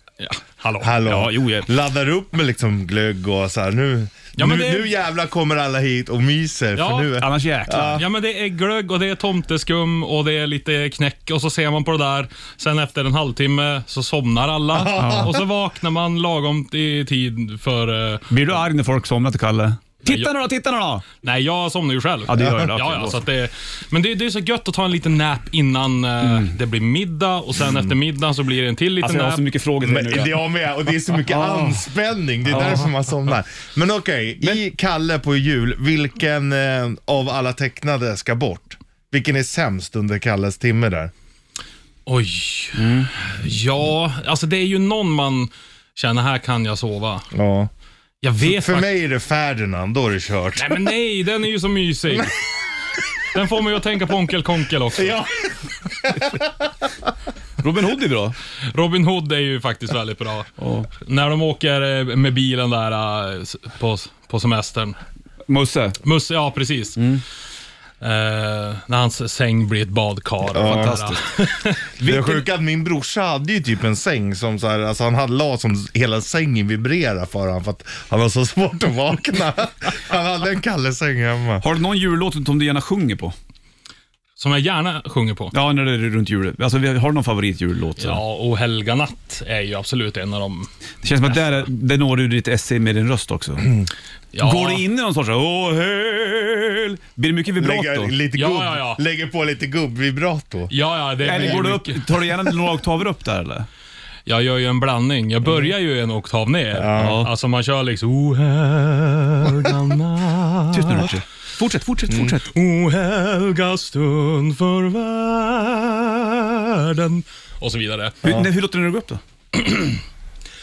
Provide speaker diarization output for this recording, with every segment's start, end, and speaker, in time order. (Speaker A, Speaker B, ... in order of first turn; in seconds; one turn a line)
Speaker A: 0.2-1.0
Speaker B: 0.8-8.0
Speaker C: 1.0-1.7
Speaker A: 4.4-4.9
Speaker A: 6.8-7.2
Speaker C: 7.2-8.0
Speaker A: 7.9-18.3
Speaker B: 14.7-15.3
Speaker C: 15.0-15.3
Speaker C: 18.3-21.0
Speaker A: 21.2-29.5
Speaker C: 22.3-23.2
Speaker C: 29.0-30.4
Speaker B: 29.8-41.1
Speaker C: 31.1-31.8
Speaker C: 32.5-32.9
Speaker A: 42.0-47.3
Speaker C: 42.8-43.1
Speaker B: 47.3-47.7
Speaker A: 48.2-48.9
Speaker B: 48.4-50.8
Speaker A: 50.6-52.3
Speaker A: 53.3-55.3
Speaker B: 55.0-56.5
Speaker C: 57.6-58.4
Speaker A: 58.7-65.0
Speaker C: 60.6-60.9
Speaker C: 65.5-66.0
Speaker A: 66.0-67.0
Speaker C: 67.0-67.2
Speaker A: 68.0-71.9
Speaker B: 70.5-71.0
Speaker C: 70.6-71.2
Speaker C: 72.0-72.4
Speaker B: 72.0-81.6
Speaker C: 81.6-83.3
Speaker A: 84.4-85.5
Speaker C: 85.5-88.2
Speaker A: 88.0-90.7
Speaker C: 91.0-93.7
Speaker A: 91.3-91.6
Speaker A: 94.3-94.8
Speaker C: 94.4-98.1
Speaker B: 97.6-100.7
Speaker A: 98.3-99.0
Speaker A: 100.7-102.0
Speaker C: 101.2-103.7
Speaker A: 104.3-111.1
Speaker B: 106.7-107.2
Speaker C: 107.0-107.3
Speaker C: 110.7-112.5
Speaker A: 112.2-118.3
Speaker C: 118.2-119.2
Speaker A: 119.5-120.0